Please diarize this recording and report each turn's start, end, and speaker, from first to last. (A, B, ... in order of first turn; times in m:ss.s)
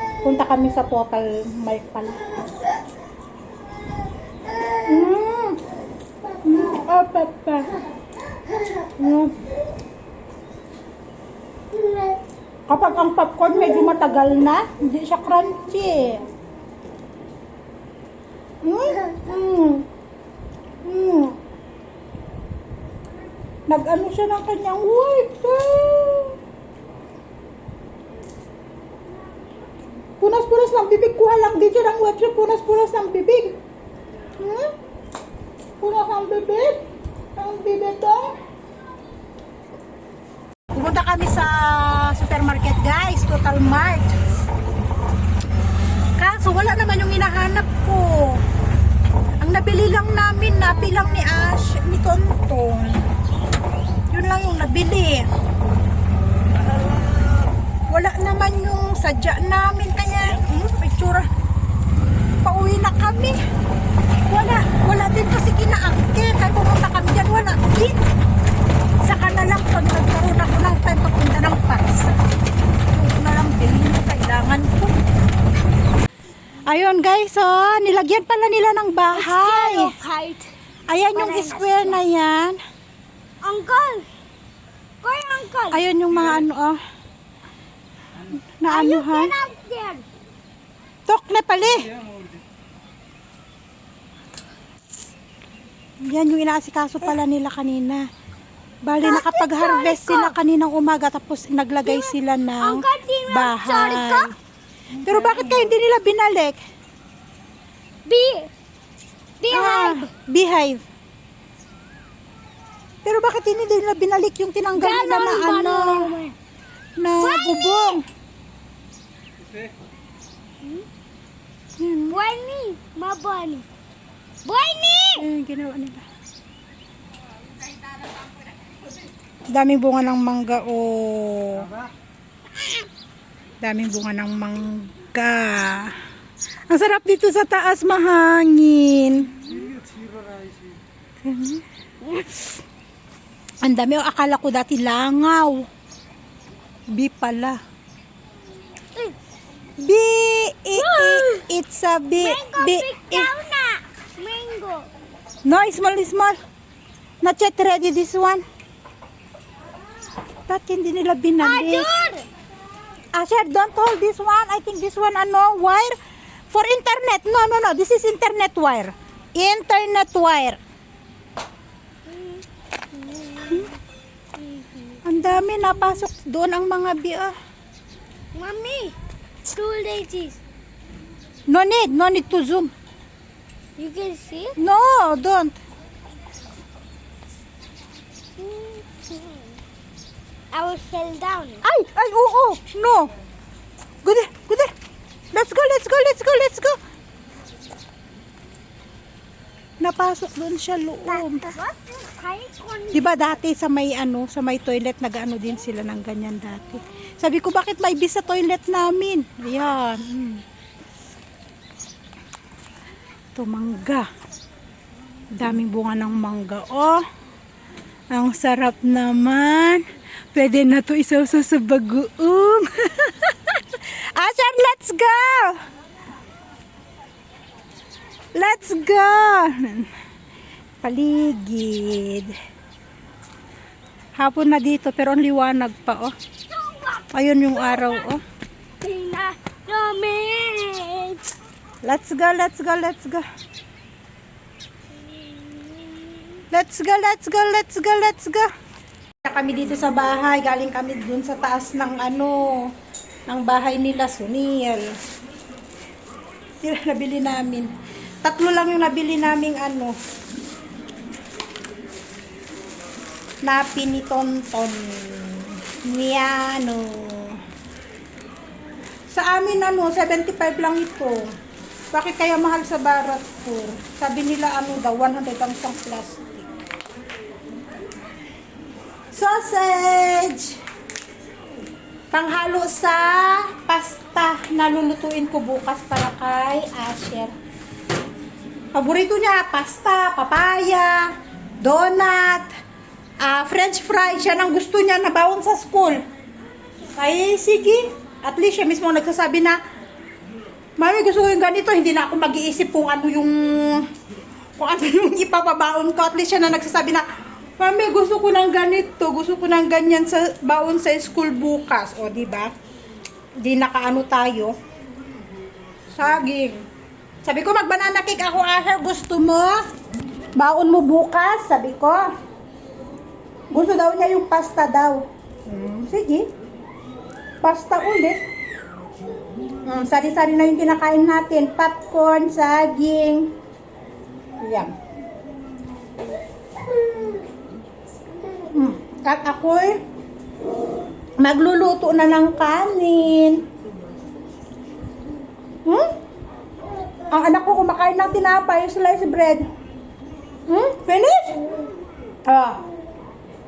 0:00.2-0:02.2 A
0:04.8-0:05.6 A
0:06.4-0:07.7 A
0:09.0-0:09.3 A
0:12.7-0:16.2 A
0:18.6-0:19.9 A
0:20.8-0:21.4 A
0:23.7-0:26.4 A
0:30.2-0:33.6 A
0:34.4-0:34.7 A
0:35.8-0:36.8 A
0:37.4-0:38.3 A
0:40.7-0:44.2 A
0:46.2-0:48.4 A
0:49.4-0:53.1 A
0:54.1-0:55.3 A
0:56.6-1:01.3 A
1:02.4-1:03.4 A
1:04.3-1:08.0 A
1:09.0-1:12.1 A
1:12.9-1:15.0 A
1:16.7-1:19.9 A
1:19.1-1:20.5 B
1:20.9-1:22.6 A
1:21.1-1:22.0 B
1:23.4-1:24.1 B
1:25.0-1:25.8 B
1:25.7-1:26.8 A
1:28.6-1:29.3 A
1:28.7-1:30.0 B
1:31.1-1:31.9 A
1:36.0-1:38.1 A
1:38.8-1:44.3 A
1:39.0-1:40.4 B
1:41.8-1:44.3 B
1:45.0-1:46.6 A
1:48.0-1:48.5 B
1:49.4-1:50.1 B
1:49.5-1:50.8 A
1:53.0-1:56.1 A
1:54.8-1:56.4 B
1:57.0-1:58.0 A
1:57.2-1:57.9 B
2:01.8-2:02.2 A
2:02.1-2:03.7 B
2:04.4-2:05.2 B
2:05.1-2:06.0 A
2:09.5-2:11.7 A
2:13.6-2:15.9 A
2:16.7-2:19.5 A
2:21.2-2:21.6 A
2:23.6-2:25.6 A
2:26.9-2:27.6 A
2:29.8-2:33.3 A
2:30.7-2:31.4 B
2:32.2-2:34.9 B
2:35.4-2:36.3 A
2:37.2-2:38.4 A
2:40.5-2:41.9 A
2:41.4-2:42.2 B
2:43.1-2:46.0 A
2:46.5-2:50.6 A
2:52.1-2:53.7 B
2:54.4-2:55.0 B
2:55.0-2:57.3 A
2:58.3-2:58.9 B
2:59.5-3:00.4 B
3:01.5-3:02.7 A
3:03.8-3:04.6 B
3:04.6-3:05.6 A
3:08.4-3:09.6 B
3:10.5-3:11.6 B
3:11.6-3:13.1 A
3:14.0-3:14.7 A
3:15.3-3:16.8 A
3:19.8-3:21.5 A
3:21.1-3:23.4 B
3:22.9-3:30.4 A
3:33.3-3:34.1 A
3:35.3-3:37.0 A
3:38.1-3:39.8 A
3:40.3-3:45.6 A
3:48.3-3:49.9 A
3:50.8-3:52.3 A
3:54.2-3:56.1 A
3:56.6-3:57.0 B
3:57.1-3:58.2 A
3:57.8-3:58.0 B
3:58.8-4:01.2 B
4:01.8-4:03.2 A
4:05.4-4:06.1 B
4:06.5-4:08.5 A
4:09.2-4:12.7 A
4:13.3-4:14.9 A
4:16.6-4:17.7 A
4:18.2-4:19.9 A
4:23.4-4:27.4 A
4:29.1-4:31.3 A
4:31.9-4:36.5 A
4:39.1-4:40.6 A
4:42.1-4:47.3 A
4:48.7-4:51.1 A
4:51.6-4:52.5 A
4:53.2-4:56.0 A
4:56.9-4:59.6 A
5:00.8-5:03.8 A
5:04.6-5:07.0 A
5:07.6-5:12.5 A
5:13.4-5:14.5 A
5:15.9-5:16.6 A
5:17.2-5:19.6 A
5:20.4-5:22.0 A
5:23.5-5:26.3 A
5:27.4-5:28.2 A
5:29.6-5:33.3 A
5:34.4-5:34.7 A
5:38.4-5:39.8 A
5:41.2-5:43.4 A
5:47.1-5:49.4 A
5:50.5-5:51.4 A
5:52.3-5:52.6 A